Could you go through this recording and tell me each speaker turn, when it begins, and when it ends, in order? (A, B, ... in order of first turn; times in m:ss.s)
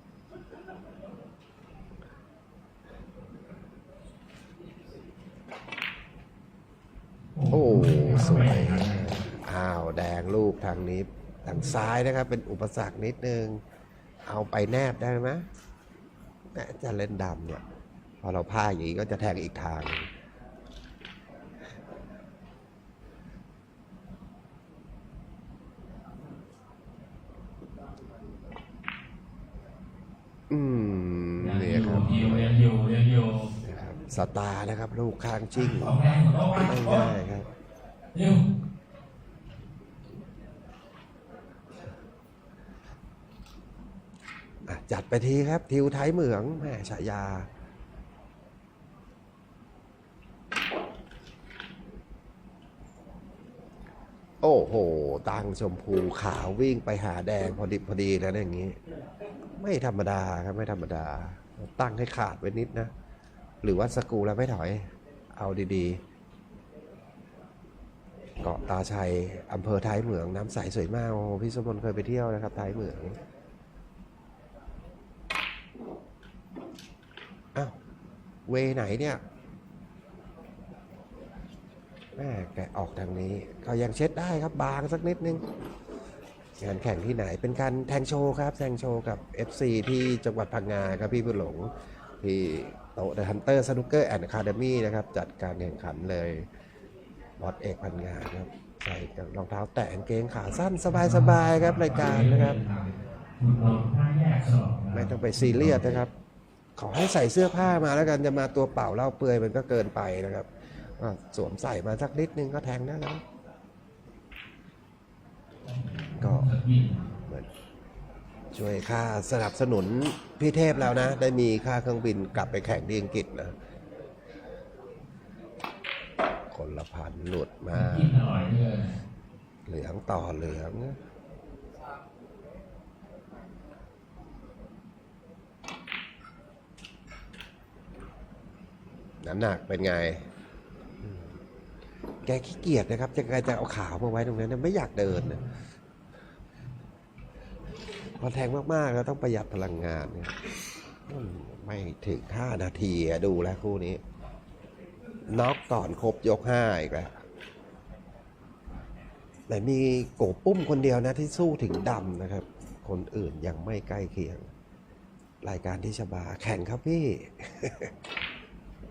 0:07.4-0:09.2 A
0:07.5-0:13.6 B
0:14.3-0:15.4 B
0:16.5-0:17.6 B
0:18.2-0:20.1 B
0:30.5-0:32.6 B
0:31.4-0:33.6 A
0:33.6-0:36.0 B
0:35.5-0:37.2 A
0:36.5-0:37.5 B
0:38.1-0:38.4 A
0:44.7-0:47.5 B
0:54.4-0:58.8 B
0:59.6-1:02.9 B
1:03.6-1:06.0 B
1:08.4-1:13.2 B
1:18.5-1:19.2 B
1:22.2-1:25.4 B
1:26.6-1:36.5 B
1:37.4-1:42.6 B
1:40.9-1:46.0 A
1:44.9-1:46.1 B
1:46.8-1:53.2 B
1:55.7-1:57.1 A
1:56.2-1:56.5 B
1:57.2-1:57.5 B
1:58.5-2:03.6 B
2:06.5-2:08.2 B
2:07.7-2:09.0 A
2:09.7-2:11.0 B
2:19.2-2:20.3 B
2:21.0-2:21.3 B
2:22.2-2:25.5 B
2:28.2-2:30.3 B
2:31.0-2:34.0 B
2:35.3-2:37.2 B
2:39.5-2:44.5 B
2:45.4-2:47.9 B